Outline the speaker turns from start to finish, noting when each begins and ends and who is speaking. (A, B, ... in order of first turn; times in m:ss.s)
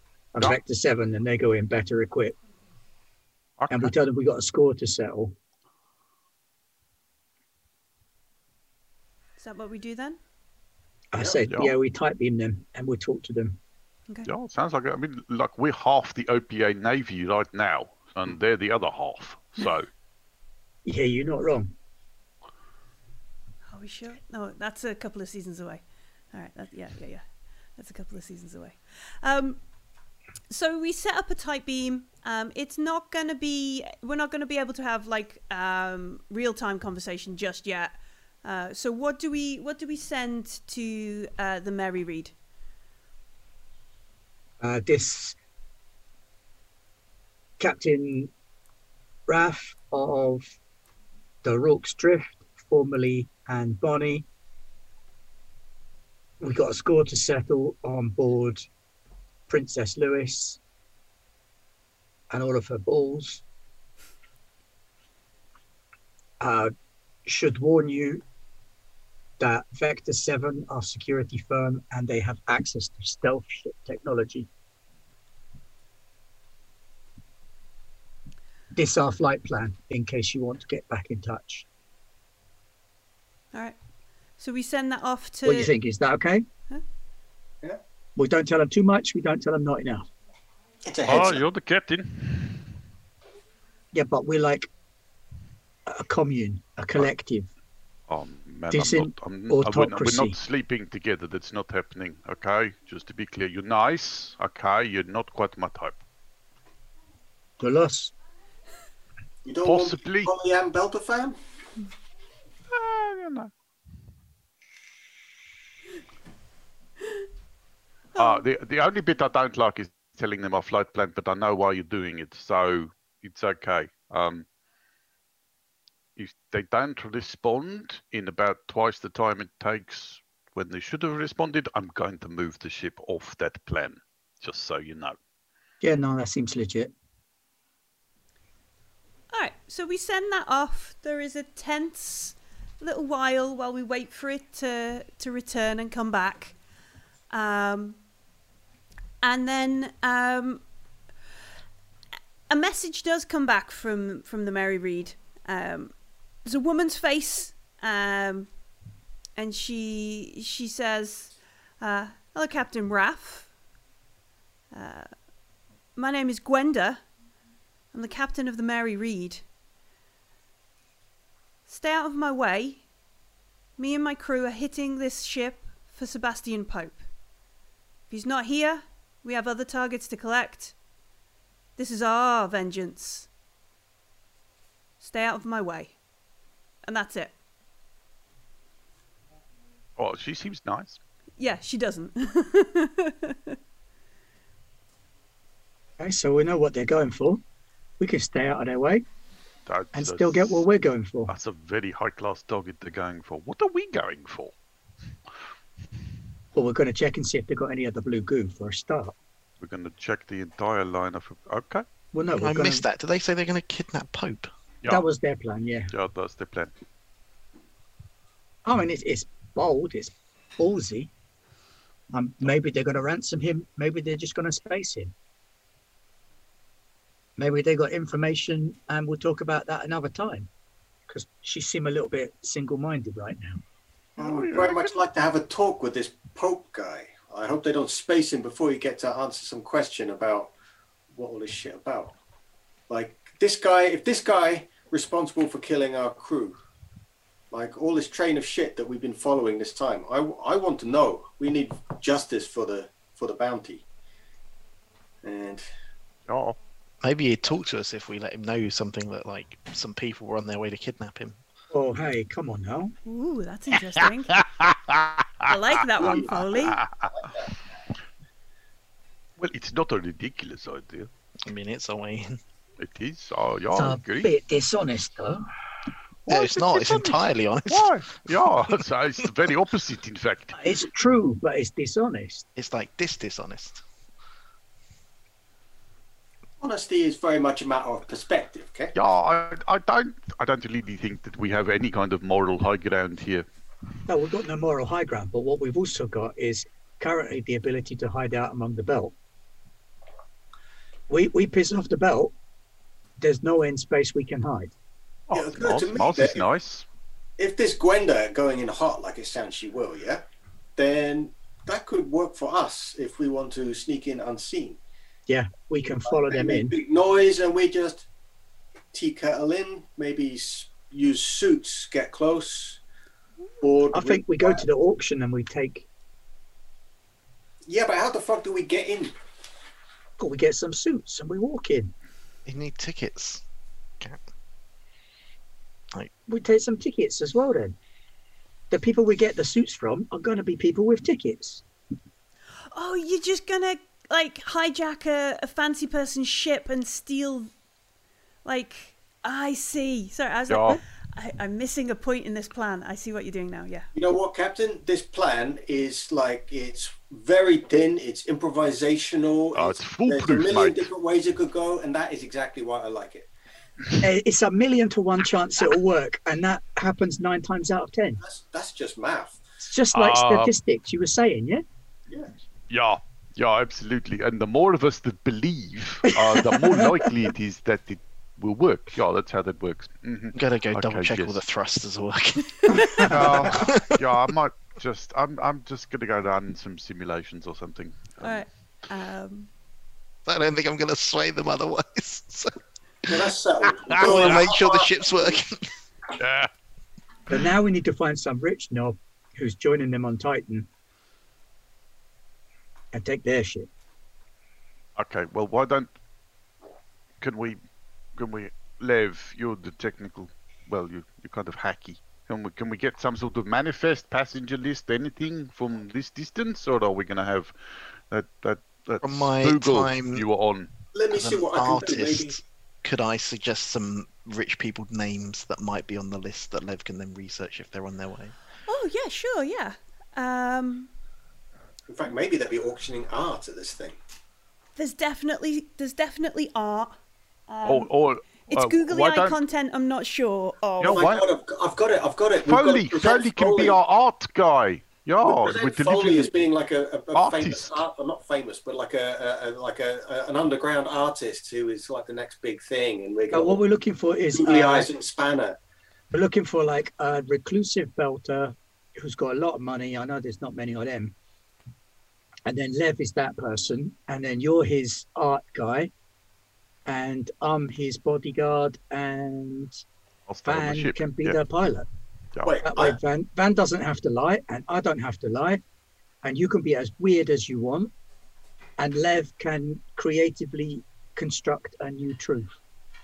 0:00.3-0:02.4 A
0:03.6-0:03.9 B
0:03.7-0:05.3 A
0:09.4-0:10.2 C
0:11.1-0:13.6 A
0:11.5-0:11.7 B
0:14.2-0:19.9 B
0:20.8-0:21.7 A
0:23.7-0:27.2 C
0:27.8-0:29.6 C
0:30.5-0:42.3 C
0:44.6-0:45.4 A
0:47.6-0:48.3 A
0:49.3-0:50.4 A
0:51.4-0:54.2 A
0:56.4-0:58.6 A
0:59.5-1:00.6 A
1:02.3-1:03.4 A
1:06.4-1:06.7 A
1:07.2-1:08.2 A
1:09.4-1:14.5 A
1:18.7-1:21.6 A
1:24.4-1:25.7 C
1:25.4-1:26.4 A
1:28.2-1:30.1 A
1:30.8-1:31.4 D
1:31.0-1:32.7 B
1:33.9-1:34.7 A
1:35.9-1:37.5 A
1:38.1-1:46.0 B
1:38.7-1:40.4 A
1:47.6-1:48.1 A
1:49.4-1:51.4 D
1:49.6-1:50.3 B
1:52.7-1:53.5 B
1:58.1-1:58.4 C
1:58.2-2:04.4 B
2:06.2-2:15.2 B
2:15.8-2:16.9 A
2:19.3-2:26.6 C
2:27.3-2:28.0 C
2:29.2-2:30.6 C
2:32.5-2:38.5 C
2:39.4-2:43.5 C
2:44.7-2:45.1 C
2:45.9-2:47.0 C
2:47.9-2:49.4 C
2:51.7-2:52.8 C
2:53.8-2:57.0 C
2:58.1-3:00.7 C
3:01.8-3:03.3 C
3:05.0-3:06.0 C
3:06.8-3:07.3 C
3:10.0-3:11.0 B
3:11.4-3:13.6 C
3:16.0-3:17.4 A
3:18.0-3:19.0 A
3:19.6-3:20.6 B
3:19.9-3:21.3 A
3:21.3-3:24.5 B
3:26.5-3:29.1 A
3:29.6-3:31.8 B
3:32.1-3:32.8 A
3:32.3-3:34.5 E
3:34.9-3:35.9 A
3:35.9-3:36.7 B
3:38.6-3:41.1 A
3:42.1-3:45.1 A
3:47.4-3:50.5 A
3:51.1-3:53.6 A
3:54.2-3:54.9 B
3:54.2-4:00.5 D
4:01.1-4:02.2 D
4:02.9-4:06.6 D
4:07.5-4:13.8 D
4:15.2-4:15.6 D
4:16.3-4:16.6 B
4:17.0-4:21.4 E
4:21.7-4:22.9 A
4:23.0-4:24.4 C
4:24.3-4:27.2 B
4:25.4-4:26.8 C
4:26.0-4:26.4 D
4:29.4-4:31.1 B
4:31.4-4:32.4 E
4:32.8-4:34.3 B
4:33.7-4:35.4 A
4:36.3-4:38.8 E
4:36.3-4:40.7 B
4:40.6-4:42.4 A
4:42.6-4:43.8 E
4:46.6-4:48.9 D
4:48.9-4:53.4 B
4:54.0-4:59.1 A
5:01.1-5:02.3 A
5:03.2-5:04.7 A
5:05.3-5:06.8 B
5:05.3-5:06.4 D
5:07.4-5:10.2 D
5:10.8-5:14.8 D
5:15.3-5:16.8 A
5:16.0-5:18.1 D
5:18.9-5:22.8 D
5:23.6-5:24.6 D
5:23.9-5:25.9 A
5:27.7-5:29.2 D
5:30.2-5:31.9 A
5:32.4-5:33.4 E
5:36.3-5:37.8 A
5:38.7-5:41.6 A
5:42.7-5:47.5 C
5:48.4-5:53.9 C
5:50.5-5:50.8 B
5:53.9-6:03.3 D
5:59.5-6:00.9 B
6:04.0-6:08.2 A
6:08.2-6:09.4 D
6:09.6-6:11.6 A
6:09.9-6:10.5 B
6:12.7-6:21.4 B
6:16.1-6:17.1 A
6:20.3-6:24.0 E
6:22.7-6:23.0 C
6:22.8-6:23.1 A
6:23.0-6:28.4 B
6:28.2-6:29.5 C
6:30.2-6:32.5 E
6:33.1-6:35.4 D
6:33.8-6:34.4 B
6:33.9-6:35.7 E
6:36.2-6:36.5 B
6:37.3-6:40.7 A
6:42.9-6:43.7 A
6:45.0-6:45.9 B
6:47.2-6:47.6 B
6:48.2-7:00.7 B
6:59.0-7:00.2 E
7:00.9-7:02.4 D
7:01.1-7:08.3 E
7:08.6-7:10.9 C
7:11.9-7:14.0 D
7:14.8-7:17.0 C
7:17.5-7:21.1 C
7:17.6-7:19.4 B
7:20.8-7:21.2 B
7:20.8-7:23.8 D
7:22.4-7:26.3 B
7:25.2-7:33.6 D
7:27.1-7:27.8 B
7:33.3-7:34.9 A
7:34.3-7:35.6 D
7:36.1-7:41.1 A
7:42.4-7:45.9 A
7:46.8-7:49.8 A
7:50.3-7:51.4 B
7:50.4-7:51.8 A
7:52.4-7:53.0 D
7:52.6-7:55.6 A
7:56.2-7:57.9 A
7:58.8-8:02.5 A